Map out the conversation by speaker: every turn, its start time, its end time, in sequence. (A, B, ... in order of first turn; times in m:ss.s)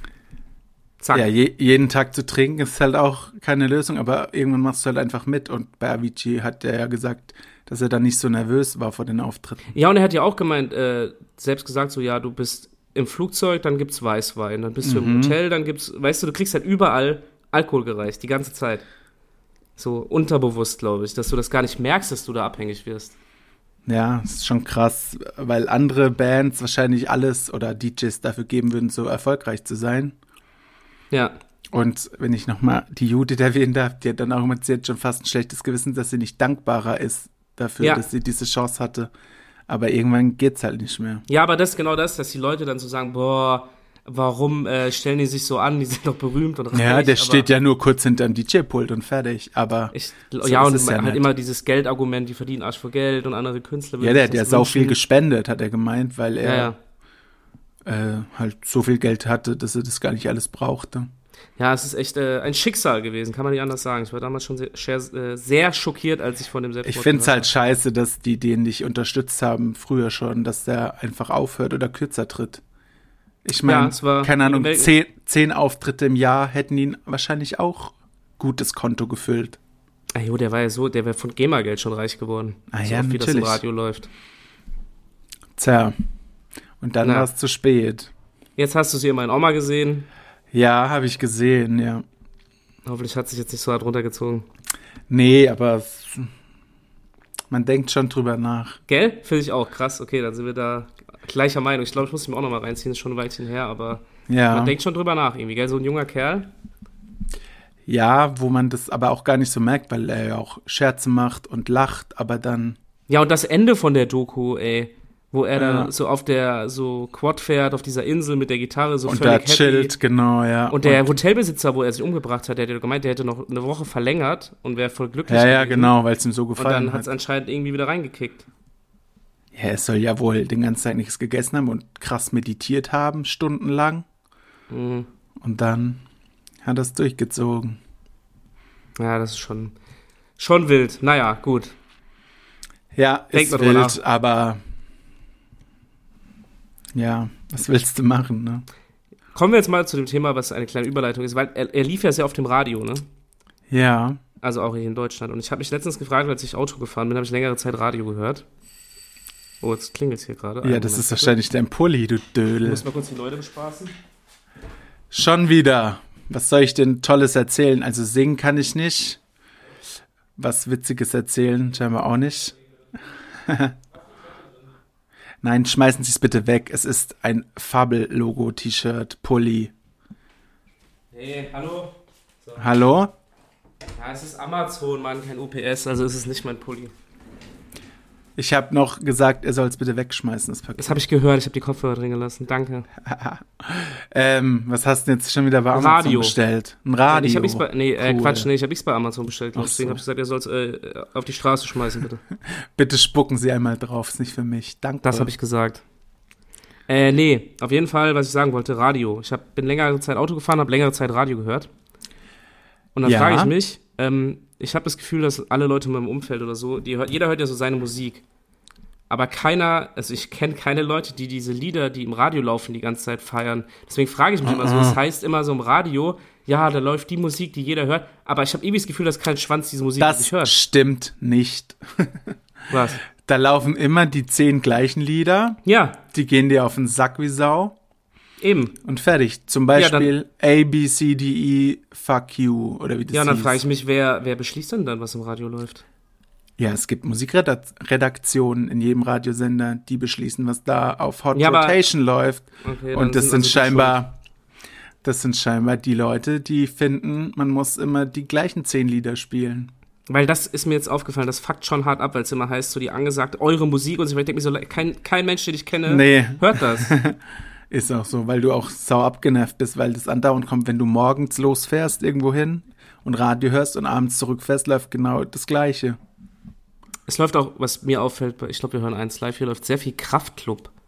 0:01.0-0:01.3 A
0:01.1-0:09.7 B
0:09.7-0:18.8 A
0:14.8-0:15.4 B
0:19.8-0:23.2 A
0:23.8-0:30.1 B
0:31.1-0:31.4 A
0:31.7-0:39.1 B
0:37.8-0:38.0 A
0:39.7-0:41.2 B
0:41.3-0:47.5 A
0:46.7-0:51.2 B
0:49.9-0:55.0 A
0:54.0-0:56.7 B
0:56.4-0:56.8 A
0:57.8-1:01.1 B
1:01.6-1:07.5 A
1:06.8-1:12.6 B
1:13.4-1:19.6 B
1:13.6-1:14.9 A
1:20.1-1:24.1 A
1:22.7-1:23.6 B
1:25.6-1:25.9 B
1:26.8-1:28.1 B
1:27.0-1:27.3 A
1:28.6-1:30.1 A
1:30.5-1:32.0 B
1:32.8-1:34.4 A
1:35.1-1:36.3 B
1:37.5-1:38.8 B
1:38.9-1:46.5 A
1:44.3-1:44.7 B
1:47.9-1:52.8 B
1:53.1-2:00.0 A
1:55.6-1:55.9 B
1:59.0-2:01.1 B
2:00.7-2:05.9 A
2:05.3-2:07.1 B
2:06.6-2:08.4 A
2:09.5-2:14.0 B
2:14.7-2:15.1 A
2:15.4-2:16.0 B
2:16.6-2:17.8 B
2:19.0-2:19.7 A
2:20.4-2:21.7 A
2:22.9-2:24.6 B
2:23.3-2:24.0 A
2:26.9-2:28.6 B
2:29.3-2:33.0 A
2:33.7-2:34.2 B
2:34.4-2:38.4 A
2:39.6-2:41.4 A
2:40.6-2:42.8 B
2:42.6-2:43.9 A
2:45.1-2:49.2 B
2:50.4-2:52.6 B
2:53.3-2:53.7 B
2:55.4-2:59.7 B
3:01.1-3:02.6 A
3:02.6-3:03.1 B
3:04.0-3:06.9 A
3:08.4-3:11.0 B
3:10.8-3:12.9 A
3:13.0-3:18.5 B
3:15.7-3:16.4 A
3:17.1-3:22.2 A
3:19.6-3:20.0 B
3:22.7-3:25.3 B
3:25.0-3:25.8 A
3:26.9-3:31.7 A
3:33.0-3:38.2 A
3:33.0-3:33.5 B
3:39.1-3:50.5 A
3:44.4-3:45.0 B
3:50.0-3:52.2 B
3:52.7-3:53.0 A
3:53.1-3:55.6 B
3:55.6-3:56.0 A
3:56.1-3:57.8 B
3:58.4-3:58.8 A
3:58.8-4:03.6 B
3:59.7-4:00.1 A
4:03.1-4:05.8 A
4:06.6-4:14.2 B
4:11.3-4:11.8 A
4:12.6-4:14.0 A
4:15.0-4:19.7 B
4:20.1-4:27.0 A
4:25.8-4:27.2 B
4:27.7-4:36.0 B
4:37.1-4:40.7 A